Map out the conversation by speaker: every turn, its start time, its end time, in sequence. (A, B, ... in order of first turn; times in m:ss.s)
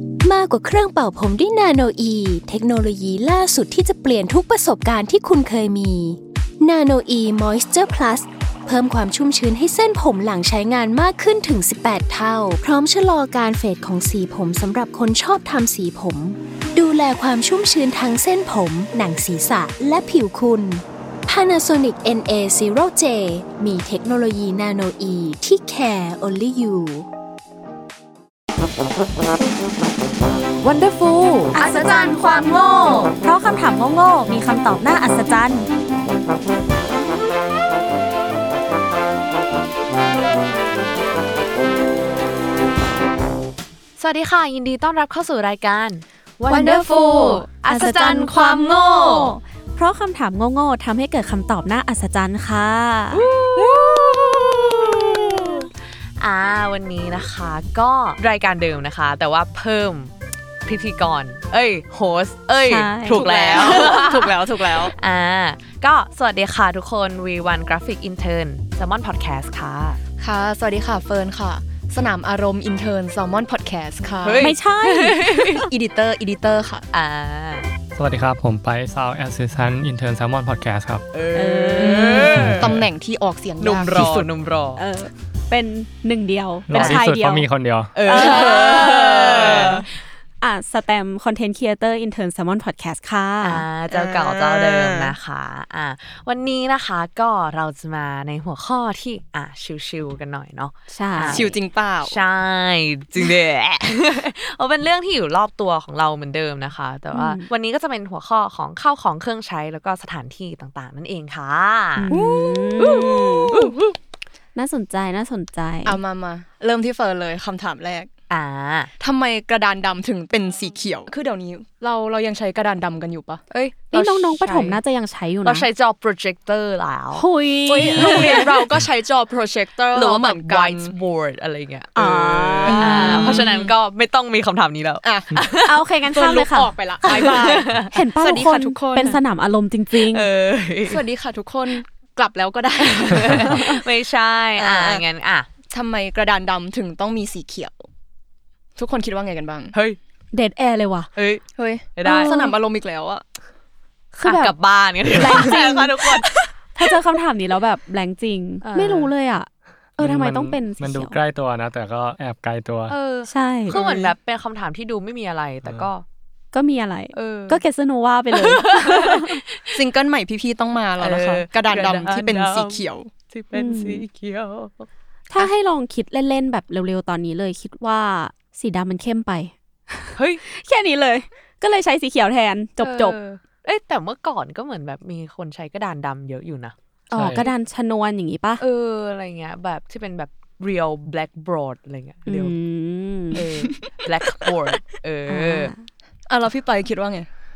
0:00.2-0:27.1 A
0:30.6-0:33.1 B
0:31.5-0:35.7 C
0:44.0-0:49.3 B
0:46.5-0:47.5 D
0:47.6-0:53.2 C
0:53.1-1:00.1 B
1:00.6-1:10.0 B
1:02.6-1:03.8 C
1:03.1-1:04.9 D
1:10.2-1:14.5 D
1:14.2-1:15.7 B
1:14.4-1:15.4 C
1:15.5-1:16.8 D
1:16.9-1:17.7 B
1:17.9-1:21.0 E
1:21.1-1:22.7 B
1:21.3-1:22.4 C
1:21.8-1:24.2 D
1:22.3-1:22.8 E
1:23.6-1:24.8 B
1:23.9-1:24.2 E
1:24.8-1:27.4 C
1:26.7-1:27.9 E
1:26.7-1:27.0 B
1:27.9-1:29.9 B
1:28.1-1:29.7 C
1:28.1-1:29.8 D
1:30.4-1:33.6 C
1:33.4-1:52.1 B
1:33.9-1:35.1 D
1:40.9-1:41.5 C
1:41.3-1:42.2 D
1:47.1-1:47.5 C
1:52.0-1:53.5 C
1:52.1-1:53.7 D
1:52.8-1:53.9 B
1:54.6-1:56.0 C
1:55.8-1:58.1 D
1:58.3-1:58.9 B
1:59.0-2:03.5 D
2:03.5-2:04.8 B
2:03.9-2:05.7 C
2:05.4-2:07.2 B
2:07.1-2:08.6 C
2:07.7-2:10.9 D
2:07.8-2:08.6 B
2:09.9-2:15.8 B
2:12.0-2:13.7 C
2:12.6-2:13.5 D
2:15.0-2:15.4 D
2:15.6-2:20.3 C
2:16.1-2:19.2 D
2:17.0-2:17.9 B
2:19.9-2:21.0 B
2:20.9-2:23.8 D
2:22.8-2:25.5 B
2:24.6-2:25.0 D
2:25.7-2:27.8 D
2:28.8-2:29.7 D
2:29.7-2:30.0 B
2:30.3-2:31.1 C
2:31.1-2:31.4 B
2:31.6-2:33.2 D
2:32.0-2:32.4 B
2:32.0-2:32.5 C
2:34.1-2:34.6 C
2:34.2-2:36.4 B
2:35.1-2:41.2 C
2:38.6-2:39.1 B
2:40.0-2:43.0 E
2:42.9-2:46.0 B
2:43.3-2:43.8 C
2:43.7-2:44.1 D
2:46.5-2:49.4 C
2:47.1-2:47.6 B
2:48.3-2:49.8 B
2:49.7-2:53.1 D
2:51.0-2:54.9 B
2:53.5-2:54.0 C
2:55.3-3:03.2 C
3:00.1-3:00.4 B
3:02.8-3:06.8 B
3:07.1-3:08.6 C
3:07.1-3:07.5 E
3:08.6-3:12.6 B
3:12.2-3:13.4 C
3:13.3-3:15.7 B
3:13.5-3:14.0 D
3:15.3-3:15.8 C
3:16.3-3:17.3 D